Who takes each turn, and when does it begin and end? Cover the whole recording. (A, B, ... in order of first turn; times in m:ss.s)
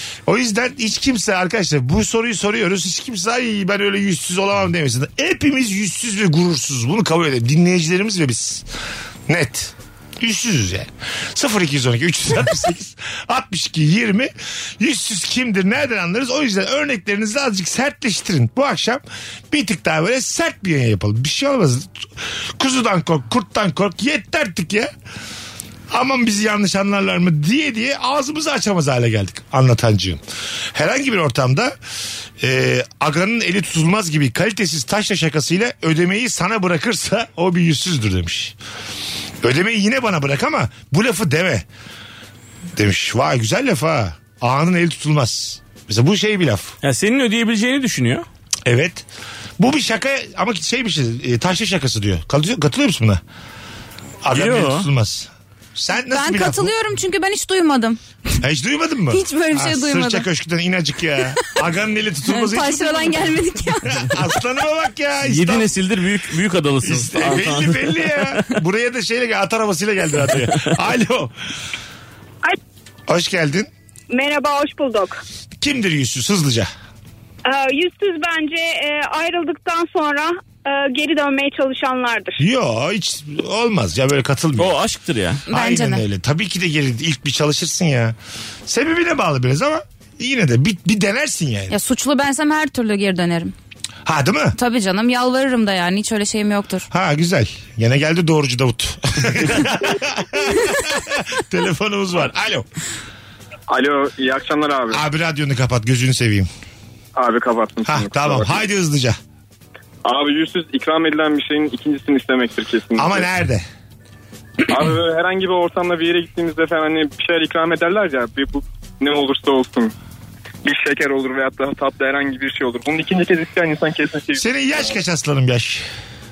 0:00.3-0:08.7 A
0:09.3-0:24.9 A
0:25.9-0:30.2 A
0:30.7-0:31.8 A
0:32.4-0:38.6 A
0:39.4-0:41.7 A
0:42.8-0:46.8 A
0:46.8-0:48.3 B
0:48.6-0:49.0 A
0:49.6-0:53.2 A
0:54.2-0:56.7 A
0:54.3-0:54.9 B
0:56.1-0:58.0 C
0:58.4-1:03.3 A
0:59.1-1:00.3 C
1:02.3-1:04.0 C
1:03.9-1:05.7 A
1:05.3-1:08.5 B
1:06.8-1:11.4 A
1:10.3-1:10.7 B
1:13.1-1:13.7 A
1:14.1-1:15.2 D
1:15.6-1:16.7 A
1:17.4-1:22.4 D
1:22.4-1:24.8 A
1:24.6-1:25.4 B
1:25.5-1:26.0 C
1:25.5-1:28.2 A
1:28.7-1:31.7 A
1:31.7-1:33.5 C
1:34.0-1:34.6 A
1:34.6-1:36.9 C
1:36.9-1:42.7 A
1:43.7-1:45.0 E
1:44.9-1:46.5 A
1:47.2-1:48.6 E
1:47.9-1:49.2 A
1:50.0-1:53.3 E
1:53.0-1:53.6 A
1:54.7-1:59.9 E
2:00.6-2:05.0 E
2:04.4-2:05.8 A